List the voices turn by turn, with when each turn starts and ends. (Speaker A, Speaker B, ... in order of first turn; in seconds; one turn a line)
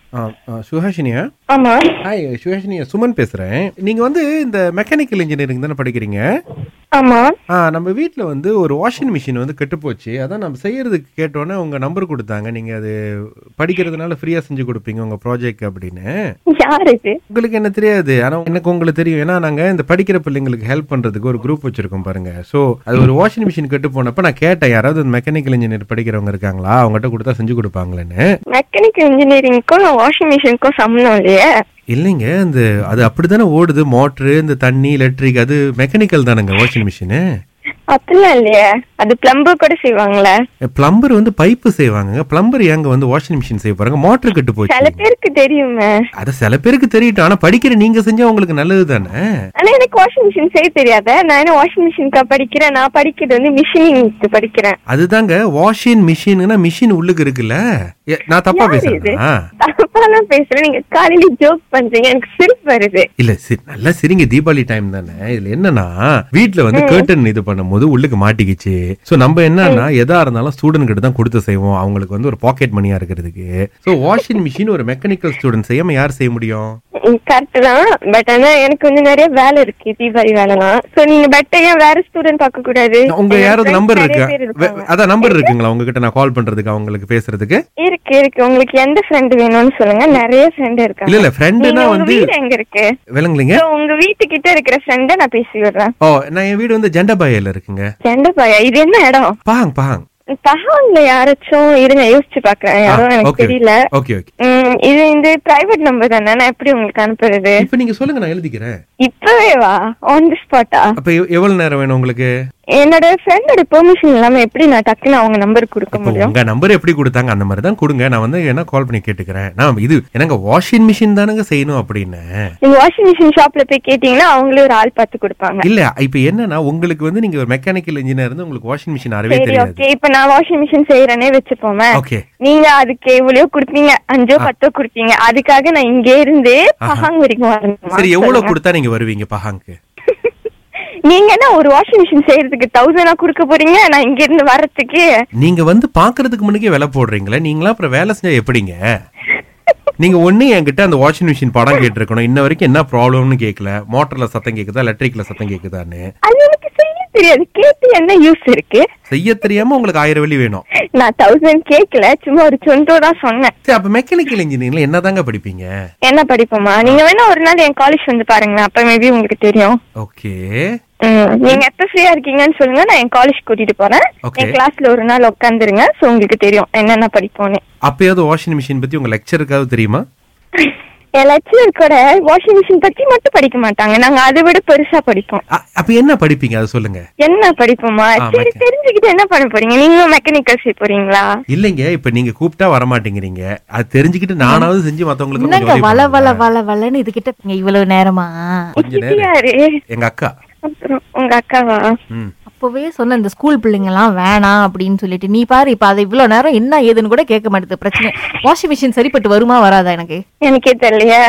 Speaker A: 0.1-1.2
Speaker B: 1.5-1.8
Speaker A: 2.0-6.2
Speaker B: 7.0-7.2
Speaker A: 7.6-12.9
Speaker A: 13.6-16.1
Speaker B: 16.6-17.2
Speaker A: 17.3-28.2
Speaker B: 28.5-31.4
Speaker A: 31.9-37.2
Speaker B: 37.9-40.3
Speaker A: 40.7-45.0
Speaker B: 44.7-45.9
Speaker A: 46.2-49.1
Speaker B: 49.6-54.8
Speaker A: 54.9-57.6
Speaker A: 58.1-59.2
Speaker B: 58.5-63.0
Speaker A: 63.2-76.8
Speaker B: 66.7-67.1
Speaker B: 77.1-85.5
Speaker A: 83.1-87.6
Speaker B: 87.8-92.8
Speaker A: 91.1-92.3
Speaker A: 93.2-93.6
Speaker B: 93.5-95.9
Speaker A: 96.0-97.8
Speaker B: 98.0-99.3
Speaker A: 99.5-100.0
Speaker B: 100.4-103.7
Speaker A: 102.9-104.3
Speaker B: 104.4-107.5
Speaker A: 107.6-108.7
Speaker B: 109.0-110.9
Speaker A: 111.0-112.3
Speaker B: 112.8-116.3
Speaker A: 115.9-122.2
Speaker B: 122.6-125.6
Speaker A: 125.6-129.8
Speaker B: 129.3-131.9
Speaker A: 132.0-132.2
Speaker B: 132.4-138.5
Speaker A: 137.9-139.7
Speaker B: 141.1-145.0
Speaker A: 145.4-148.8
Speaker A: 150.0-156.0
Speaker B: 156.3-158.8
Speaker A: 159.1-160.6
Speaker B: 161.0-163.5
Speaker A: 163.7-165.7
Speaker B: 166.1-169.7
Speaker A: 170.0-170.4
Speaker B: 171.1-177.6
Speaker A: 174.2-174.6
Speaker A: 177.9-180.0
Speaker B: 180.6-185.4
Speaker A: 185.6-187.0
Speaker B: 187.2-191.3
Speaker A: 188.2-188.6
Speaker A: 191.5-196.4
Speaker C: 195.4-198.4
Speaker B: 198.8-199.6
Speaker A: 198.8-199.3
Speaker A: 199.9-200.3
Speaker B: 200.6-201.8
Speaker C: 202.5-210.2
Speaker B: 210.4-211.2